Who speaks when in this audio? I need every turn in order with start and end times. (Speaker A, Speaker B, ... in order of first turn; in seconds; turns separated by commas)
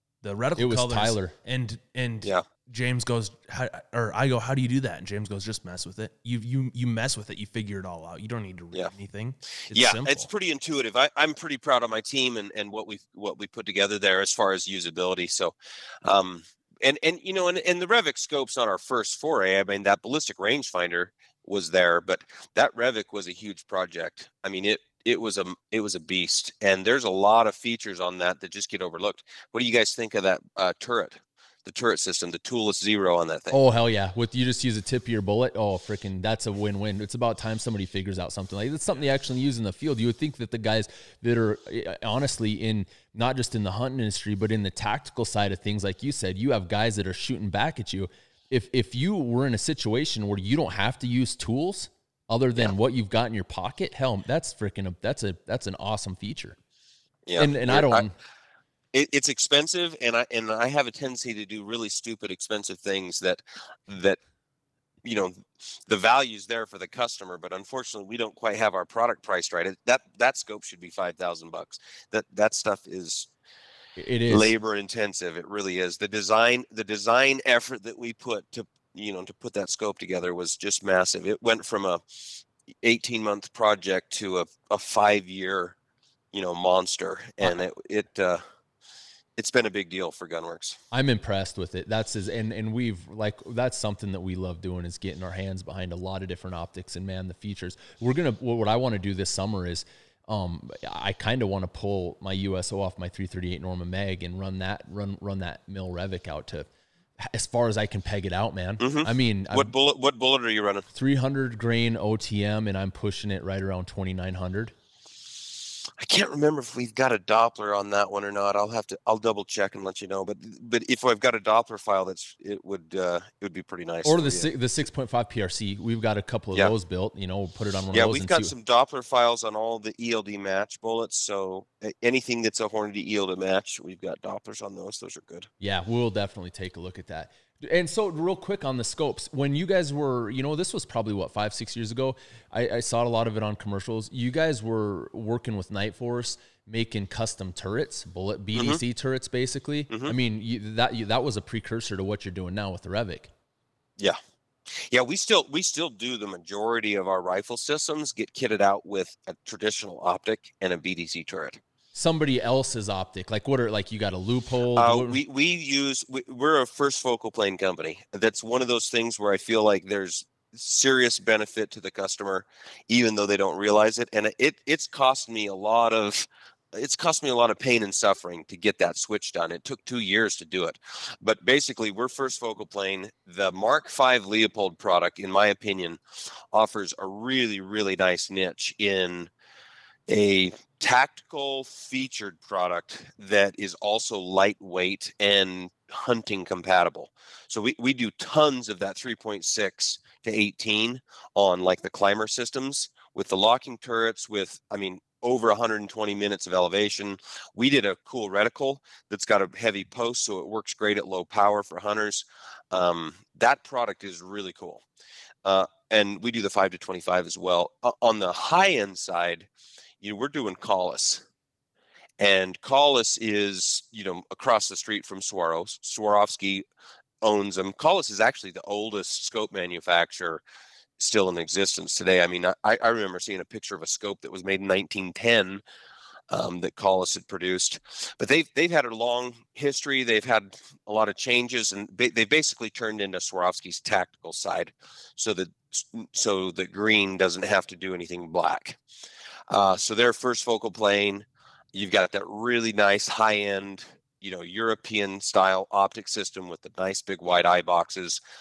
Speaker A: 0.2-10.3, Speaker B: 0.6-1.4, Speaker C: 9.7-33.6, Speaker B: 33.5-56.6, Speaker C: 57.3-58.1, Speaker B: 57.4-58.1, Speaker C: 58.9-64.2, Speaker C: 65.0-73.3, Speaker B: 74.0-74.5, Speaker C: 74.3-82.0, Speaker C: 82.8-85.8, Speaker C: 86.3-88.4, Speaker C: 89.4-90.8, Speaker B: 90.9-106.7, Speaker B: 107.2-109.7, Speaker C: 108.8-110.8, Speaker B: 110.9-114.7, Speaker C: 116.0-124.5, Speaker B: 124.0-128.5, Speaker C: 127.9-135.5, Speaker B: 135.6-153.3, Speaker C: 148.6-148.8, Speaker C: 149.9-150.1, Speaker C: 154.7-161.6, Speaker B: 161.9-165.2, Speaker C: 164.8-186.0, Speaker C: 186.5-189.3, Speaker C: 190.1-214.8, Speaker C: 215.4-219.5, Speaker C: 220.0-221.3, Speaker C: 222.2-226.6, Speaker C: 227.2-230.4, Speaker C: 231.0-235.6, Speaker C: 236.3-248.8, Speaker C: 249.5-258.2